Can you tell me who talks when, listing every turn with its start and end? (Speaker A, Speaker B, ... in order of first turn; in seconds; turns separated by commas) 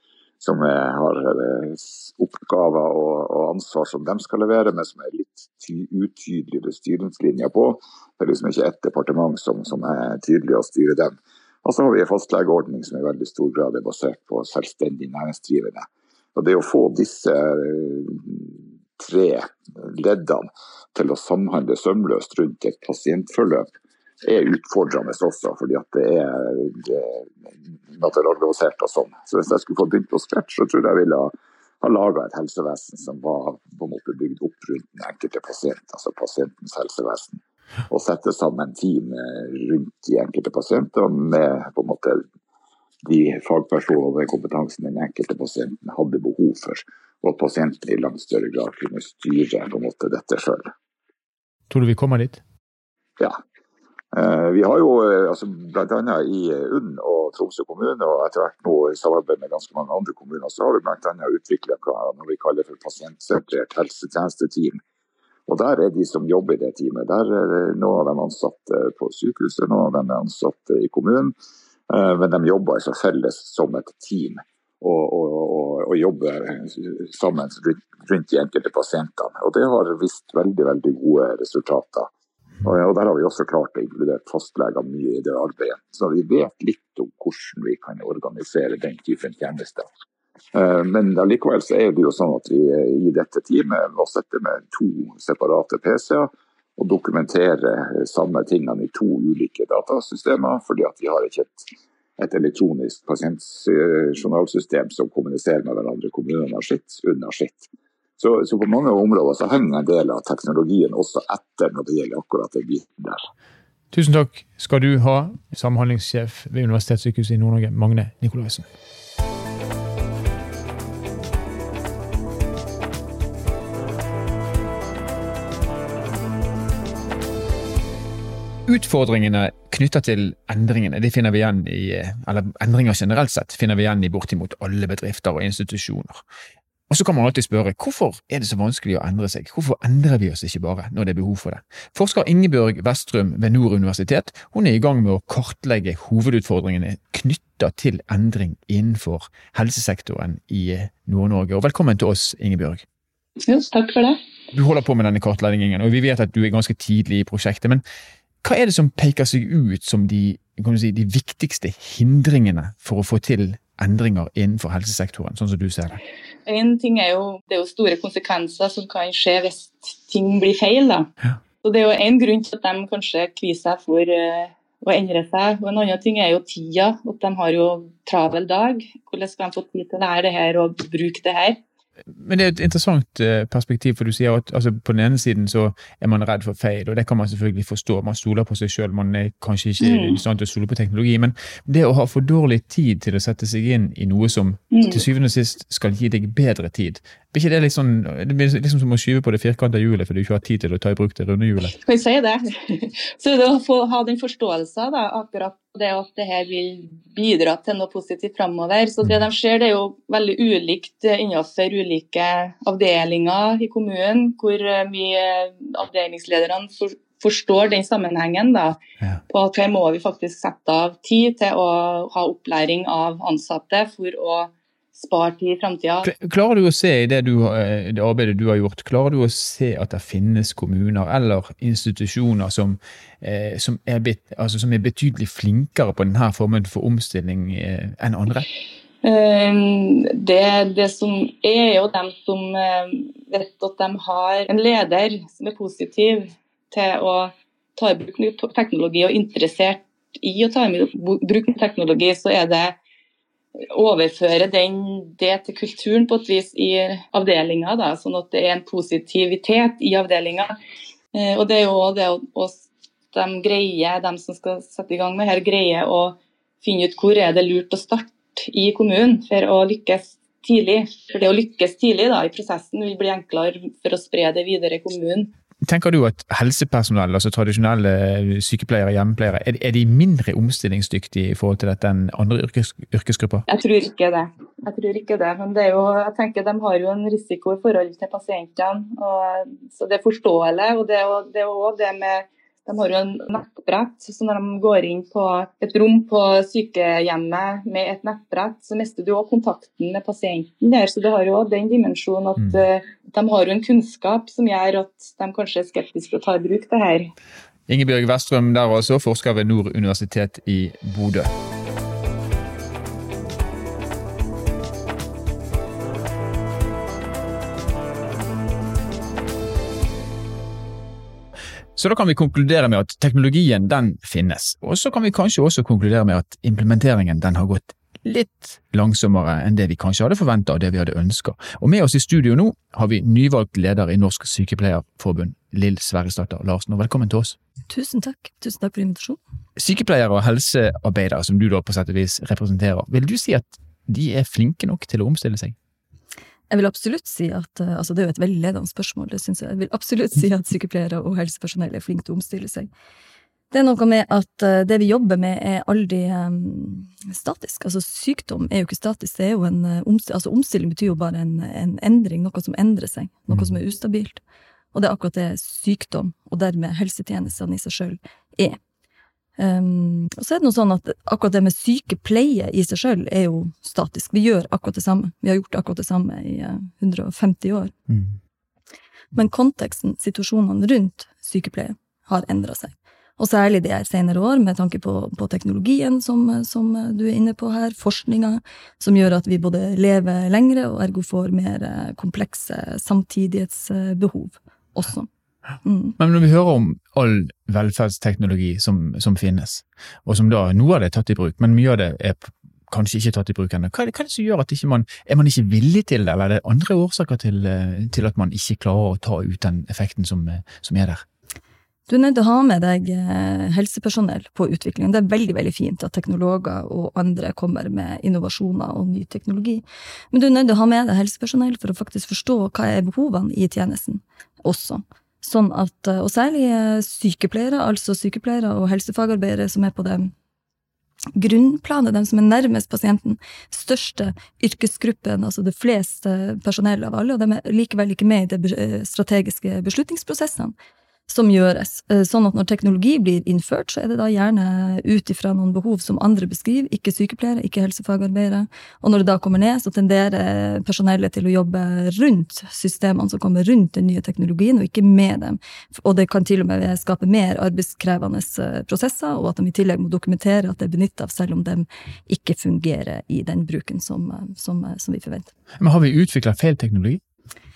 Speaker A: 0.4-23.7, Speaker A: 24.2-27.3, Speaker A: 27.9-42.2, Speaker A: 43.0-50.7, Speaker B: 51.7-52.4, Speaker A: 54.1-64.8, Speaker A: 65.5-71.3, Speaker A: 71.9-82.1, Speaker A: 82.6-89.9, Speaker A: 90.5-101.6, Speaker A: 102.2-107.7, Speaker A: 108.2-113.2, Speaker B: 113.9-118.7, Speaker B: 128.7-136.2, Speaker B: 136.9-152.8, Speaker C: 153.5-154.2, Speaker B: 154.5-157.8, Speaker B: 158.4-166.0, Speaker C: 166.5-171.1, Speaker C: 171.6-181.6, Speaker B: 182.1-201.8, Speaker C: 189.8-190.2, Speaker C: 194.7-195.0, Speaker C: 201.8-226.1, Speaker B: 226.0-238.5, Speaker C: 239.0-252.8, Speaker C: 253.7-260.6, Speaker C: 261.1-275.3, Speaker B: 275.7-283.5, Speaker C: 283.5-307.1, Speaker B: 307.7-311.3, Speaker B: 321.8-337.4, Speaker D: 337.7-339.2, Speaker B: 339.6-345.6, Speaker D: 346.5-352.7, Speaker D: 353.5-364.2, Speaker D: 364.7-368.6, Speaker D: 369.4-377.7, Speaker B: 377.9-378.1, Speaker D: 379.1-395.1, Speaker D: 395.6-396.0, Speaker B: 396.0-411.1, Speaker D: 411.9-430.1, Speaker D: 431.2-440.5, Speaker D: 441.1-465.3, Speaker B: 465.6-467.0